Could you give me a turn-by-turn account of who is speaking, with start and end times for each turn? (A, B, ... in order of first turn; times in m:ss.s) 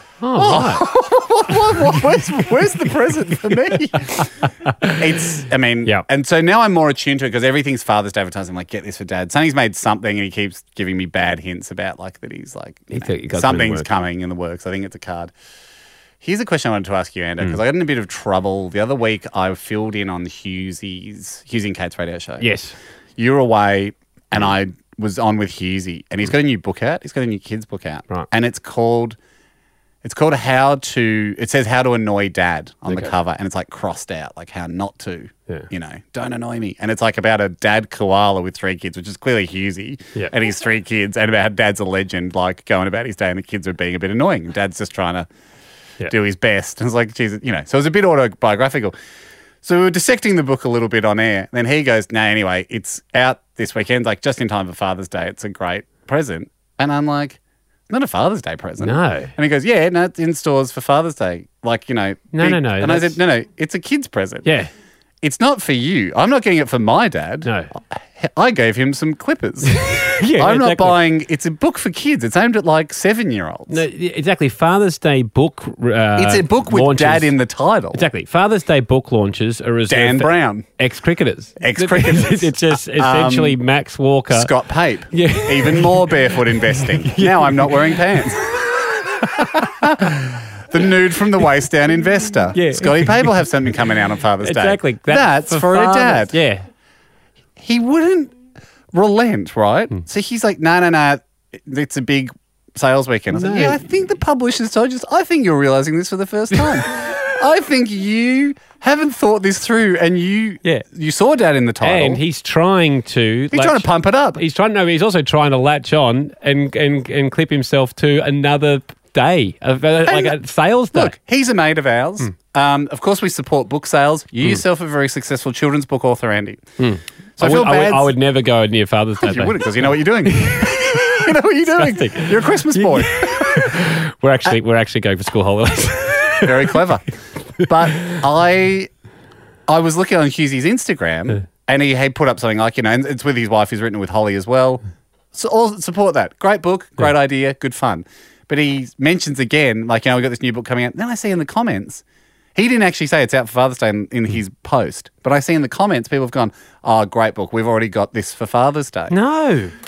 0:00.2-0:00.8 A
0:00.4-0:04.3 B
0:05.0-0:15.3 B
0:12.9-0:13.8 A
0:16.2-0:22.5 B
0:22.4-0:22.8 A
0:23.2-0:29.2 B
0:30.0-0:45.3 B
0:32.9-0:33.1 A
0:46.1-0:48.9 B
0:49.6-0:57.4 B
0:57.9-1:04.5 B
0:58.8-0:59.3 A
1:02.3-1:03.2 A
1:04.4-1:04.7 A
1:05.2-1:13.8 B
1:07.4-1:07.7 A
1:09.8-1:11.0 A
1:13.7-1:17.4 A
1:16.2-1:18.0 B
1:17.9-1:24.5 A
1:19.9-1:20.6 B
1:21.6-1:23.6 B
1:24.3-1:28.7 B
1:25.1-1:26.1 A
1:26.8-1:28.0 A
1:29.4-1:36.4 B
1:32.5-1:33.4 A
1:34.4-1:36.6 A
1:37.6-1:38.3 B
1:38.9-1:52.2 B
1:43.3-1:43.8 A
1:51.8-2:01.1 A
1:53.5-1:54.4 B
2:00.0-2:00.4 B
2:00.9-2:06.6 B
2:06.8-2:16.8 A
2:07.4-2:08.1 B
2:09.2-2:13.7 B
2:16.4-2:17.0 B
2:17.6-2:18.9 B
2:19.7-2:24.8 B
2:25.3-2:32.0 B
2:32.6-2:39.1 B
2:39.1-2:39.7 A